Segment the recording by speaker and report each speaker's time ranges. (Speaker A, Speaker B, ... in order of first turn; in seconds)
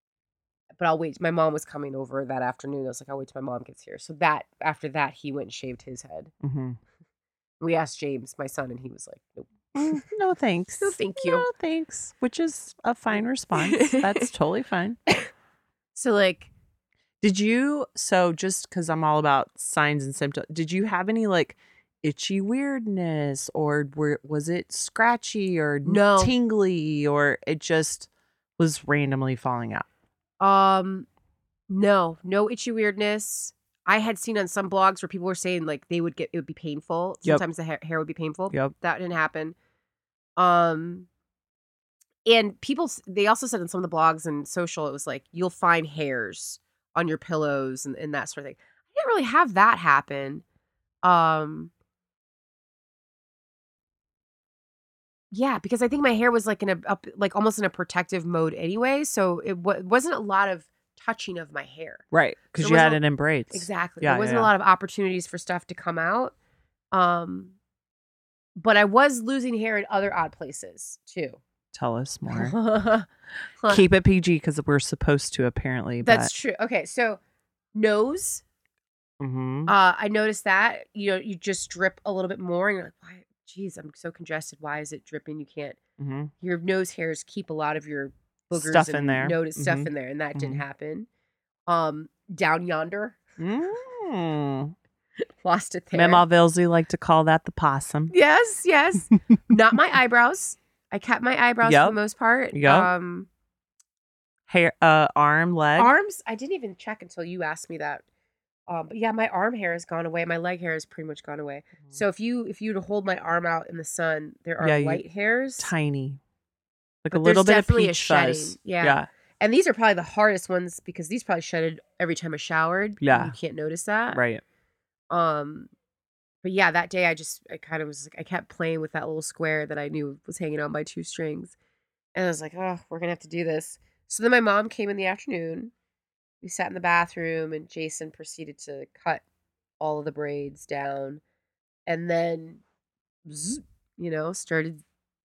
Speaker A: 0.8-6.3, 7.6-10.0, 10.8-11.5, 13.5-14.3, 15.9-16.5, 25.9-26.3, 30.4-31.1, 31.7-39.6, 40.4-41.1, 42.2-50.4, 51.0-51.7, 55.3-62.0, 62.6-66.3, 66.9-67.5, 68.6-71.4, 72.3-73.8, 76.0-77.2, 77.7-78.4, 79.7-85.8, 86.4-91.1, 91.7-93.2, 95.4-96.2, 98.1-103.3, 105.8-108.0, 108.7-115.7, 117.1-124.2, 125.1-125.7, 126.4-131.6, 132.2-135.7, 136.4-139.2, 139.8-141.2, 141.9-142.6, 143.3-144.8
Speaker B: 6.4-6.8, 9.8-15.0, 17.2-29.9, 62.1-64.5, 71.7-72.5, 73.7-76.3, 79.2-79.7, 86.0-86.3, 88.5-90.6, 93.4-94.7, 95.9-98.1, 101.6-102.0, 102.5-102.9, 104.5-105.9, 114.6-115.0, 115.6-116.2, 117.0-119.1, 123.0-123.3, 124.1-124.4